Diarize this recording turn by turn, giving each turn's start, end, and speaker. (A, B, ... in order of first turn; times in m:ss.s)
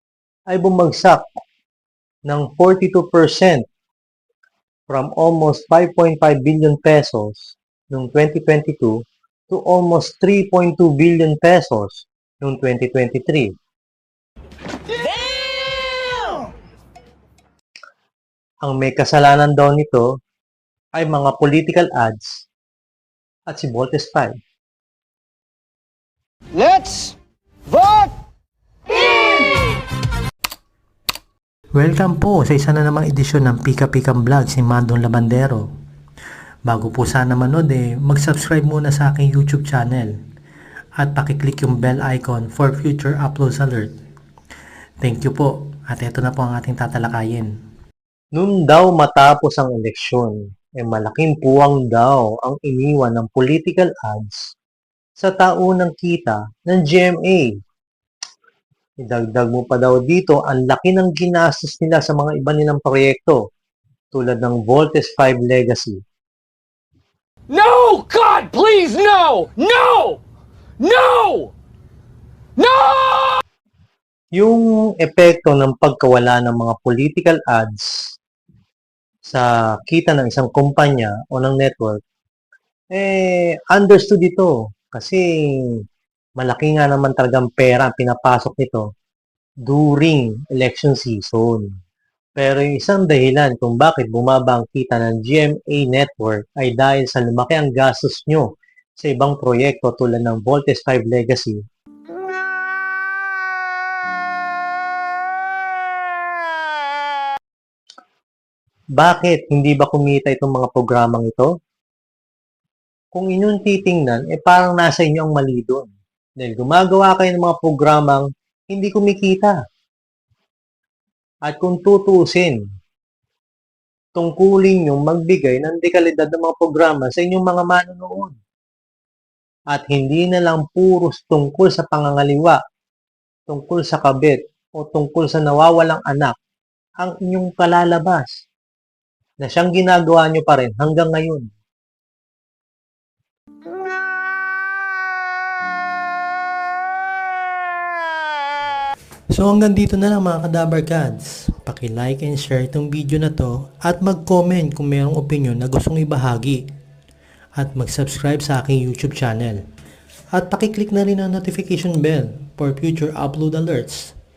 0:00.5-0:01.2 A
0:02.2-0:03.6 A
0:04.9-0:13.5 A
0:15.8-0:16.4 B
0:18.6-0:20.1 A
0:21.0-0:22.5 A
0:23.5-0:24.4 A
0:26.5-0:27.1 B
0:27.7-0:28.1 B
0:29.0-0:29.6 B
0:31.7-0:35.7 C
0:36.6-0:40.1 C
0:41.0-0:44.0 C
0:45.0-0:47.5 C
0:48.3-0:54.5 A
0:55.2-0:57.5 A
0:59.0-1:03.4 A
1:04.1-1:06.0 A
1:07.5-1:10.2 B
1:10.8-1:11.5 B
1:12.6-1:13.4 B
1:14.4-1:18.0 A
1:19.3-1:22.0 A
1:22.9-1:25.8 A
1:26.4-1:28.9 A
1:29.7-1:31.7 A
1:32.4-1:41.6 A
1:49.0-1:51.5 A
1:53.1-1:59.6 A
2:01.4-2:02.6 A
2:04.2-2:08.4 A
2:09.7-2:12.6 A
2:13.5-2:16.3 A
2:17.0-2:18.3 A
2:19.4-2:21.5 A
2:29.3-2:36.7 C
2:37.6-2:39.6 C
2:40.3-2:44.2 C